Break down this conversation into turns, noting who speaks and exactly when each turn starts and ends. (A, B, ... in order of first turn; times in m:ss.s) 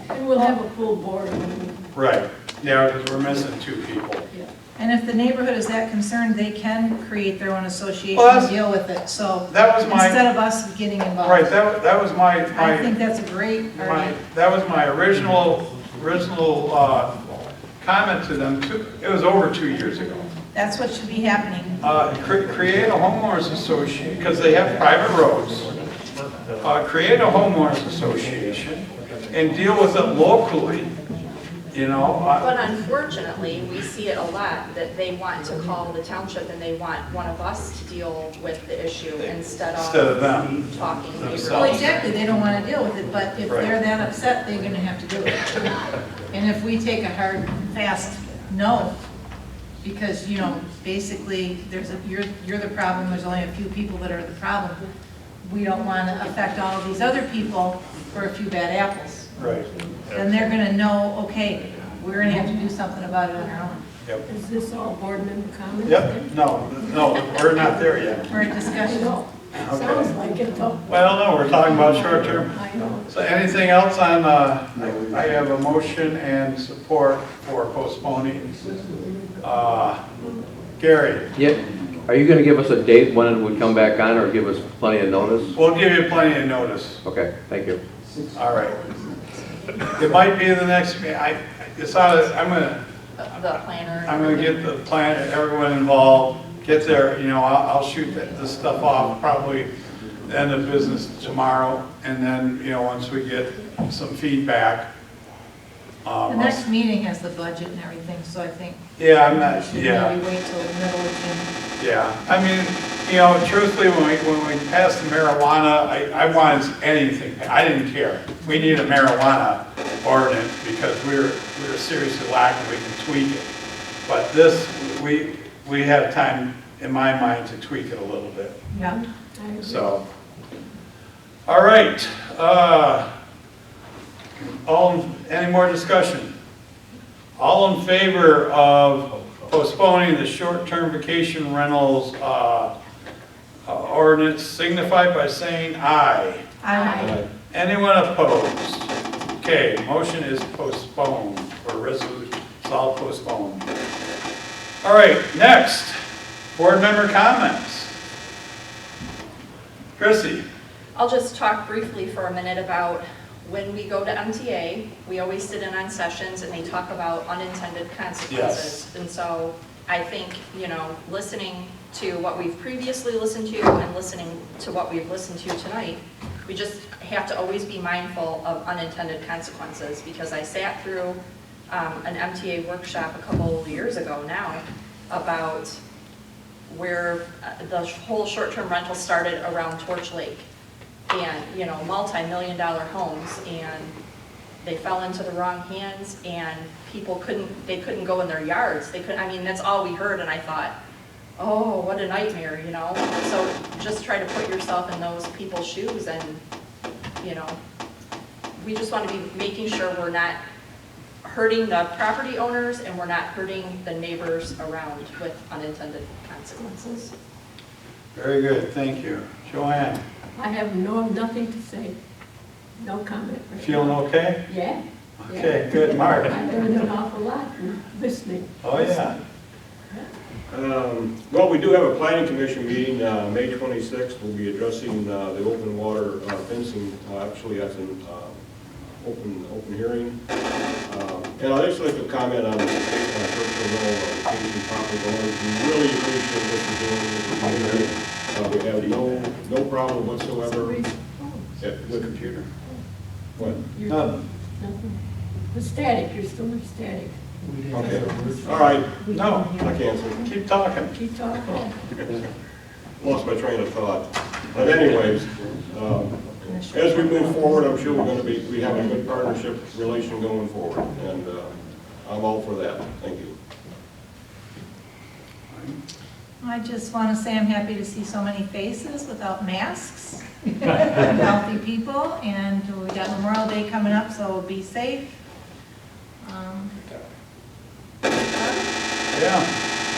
0:00.1-0:01.9 A
0:02.0-0:04.3 B
0:04.8-0:11.6 C
0:08.1-0:08.6 B
0:09.5-0:10.2 B
0:11.2-0:12.9 B
0:12.5-0:14.2 C
0:13.8-0:17.2 B
0:17.8-0:20.3 B
0:20.5-0:21.8 C
0:21.8-0:25.8 B
0:26.6-0:30.9 B
0:31.7-0:32.5 B
0:32.4-0:42.2 D
0:39.8-0:42.0 B
0:41.4-0:49.0 C
0:43.4-0:43.8 B
0:49.8-0:54.8 C
0:55.4-0:59.3 C
0:59.4-0:59.7 B
1:00.1-1:03.8 C
1:04.3-1:07.8 A
1:05.8-1:08.4 B
1:08.3-1:09.2 C
1:08.3-1:13.1 A
1:09.5-1:10.2 B
1:10.9-1:18.5 B
1:19.4-1:20.0 B
1:20.8-1:21.3 B
1:21.3-1:25.6 E
1:25.5-1:27.0 B
1:27.0-1:27.8 E
1:28.4-1:28.8 B
1:30.0-1:32.8 B
1:33.2-1:34.7 D
1:34.0-1:39.7 B
1:40.2-1:44.9 B
1:46.0-1:46.6 B
1:46.3-1:51.5 C
1:49.0-1:50.2 B
1:51.8-2:03.5 B
2:04.1-2:08.6 B
2:08.7-2:09.0 C
2:09.4-2:10.0 A
2:09.6-2:10.0 B
2:11.5-2:13.0 B
2:14.4-2:16.3 B
2:17.4-2:22.7 B
2:23.7-2:26.4 B
2:26.6-2:27.2 C
2:26.7-2:27.1 D
2:27.0-2:27.3 F
2:27.5-2:33.7 B
2:34.8-2:36.0 B
2:36.6-2:37.9 B
2:40.0-2:40.4 B
2:41.0-3:05.8 D
2:48.3-2:48.8 B
3:06.7-3:10.5 D
3:11.1-3:14.0 D
3:14.6-3:20.7 D
3:21.4-3:26.4 D
3:27.2-3:27.6 D
3:28.6-3:30.4 D
3:31.2-3:37.1 D
3:38.2-3:40.0 B
3:40.4-3:42.0 A
3:42.8-3:49.2 A
3:43.6-3:44.4 B
3:45.2-3:46.6 B
3:48.6-3:49.2 B
3:50.5-3:58.4 F
3:59.0-4:00.2 F
4:00.8-4:10.8 F
4:10.4-4:11.6 A
4:11.6-4:12.1 F
4:11.7-4:12.5 B
4:13.4-4:13.6 F
4:13.4-4:14.2 B
4:13.7-4:15.0 A
4:15.5-4:17.1 A
4:17.7-4:19.0 F
4:17.7-4:19.8 A
4:19.0-4:19.6 B
4:19.5-4:20.3 F
4:20.2-4:20.9 B
4:20.9-4:21.7 A
4:23.0-4:33.3 F
4:26.5-4:27.3 C
4:35.5-4:35.8 B
4:36.4-4:45.2 C
4:46.2-4:46.8 C
4:48.4-4:48.6 D
4:49.1-4:49.5 B